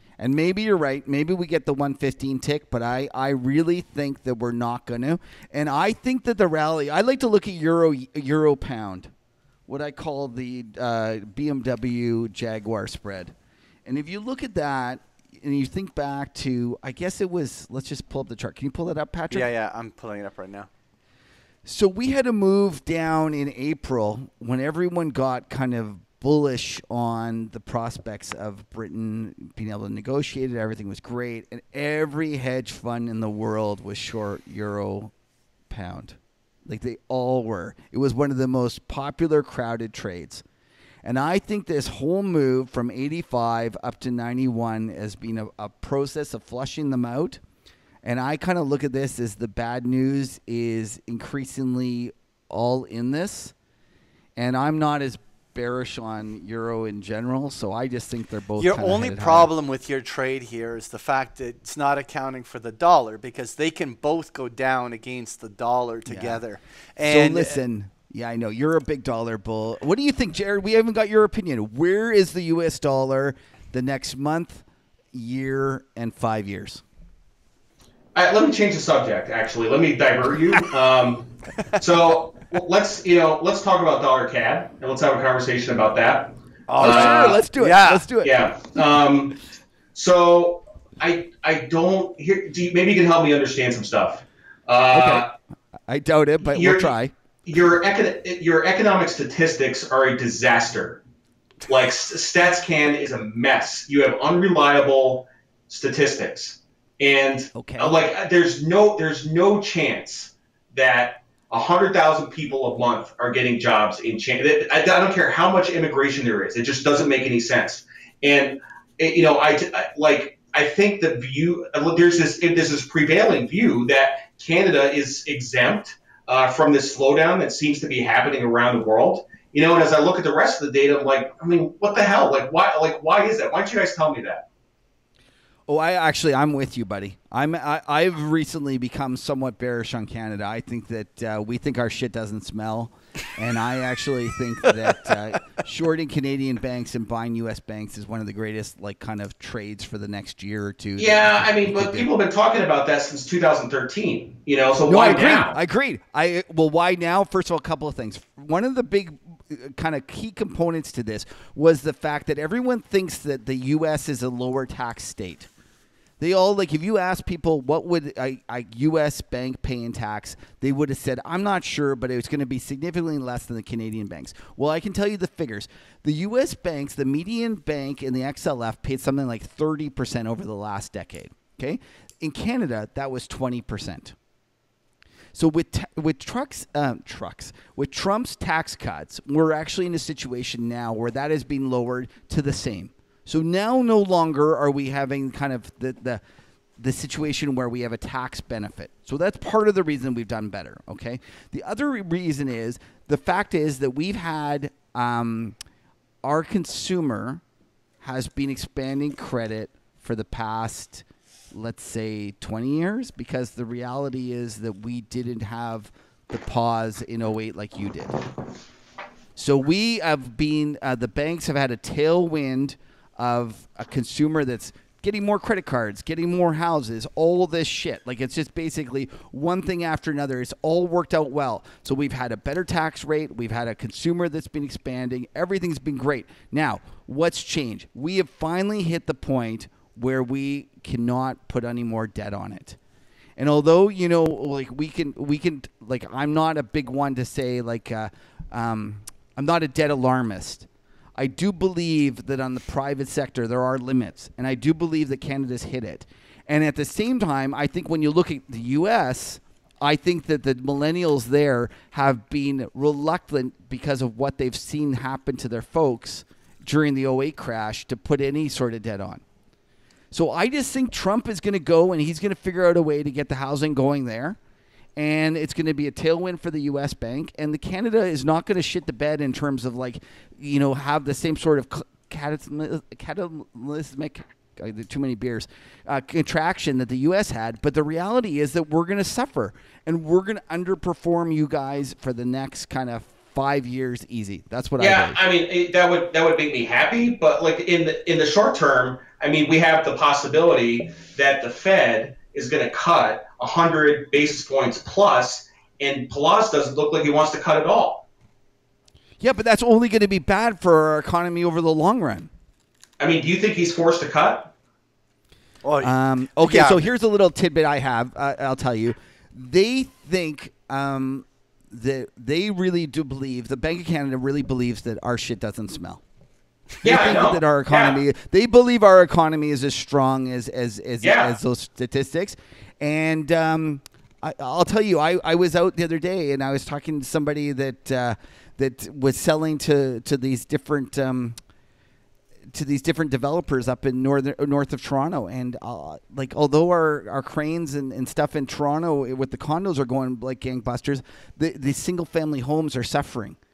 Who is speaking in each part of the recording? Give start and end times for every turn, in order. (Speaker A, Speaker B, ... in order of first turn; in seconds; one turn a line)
Speaker A: 0.2-9.1
Speaker A: 9.7-13.3
Speaker A: 13.8-19.5
Speaker B: 19.3-20.7
Speaker A: 21.6-35.1
Speaker A: 35.7-40.4
Speaker A: 41.0-47.4
Speaker A: 48.0-53.5
Speaker A: 54.4-59.5
Speaker B: 58.6-67.6
Speaker A: 66.1-66.4
Speaker A: 67.0-76.8
Speaker C: 78.2-87.4
Speaker B: 86.7-88.1
Speaker A: 86.8-88.3
Speaker C: 88.2-89.4
Speaker C: 90.0-95.3
Speaker A: 94.9-95.3
Speaker A: 95.9-97.1
Speaker C: 96.5-96.9
Speaker C: 97.5-101.0
Speaker C: 101.7-134.4
Speaker A: 107.5-108.0
Speaker A: 135.7-152.1
Speaker C: 151.0-155.5
Speaker A: 154.9-165.5
Speaker A: 166.2-184.2
Speaker A: 185.3-196.2
Speaker A: 196.8-205.6
Speaker A: 206.2-207.4
Speaker A: 208.0-218.2
Speaker A: 219.4-242.8
Speaker A: 243.4-269.2
Speaker A: 270.1-274.4
Speaker A: 275.0-295.2
Speaker C: 294.8-308.1
Speaker A: 309.2-312.3
Speaker C: 313.0-314.5
Speaker B: 315.6-316.8
Speaker A: 315.8-326.0
Speaker C: 326.8-328.0
Speaker A: 326.8-341.4
Speaker C: 331.0-331.4
Speaker A: 342.5-353.4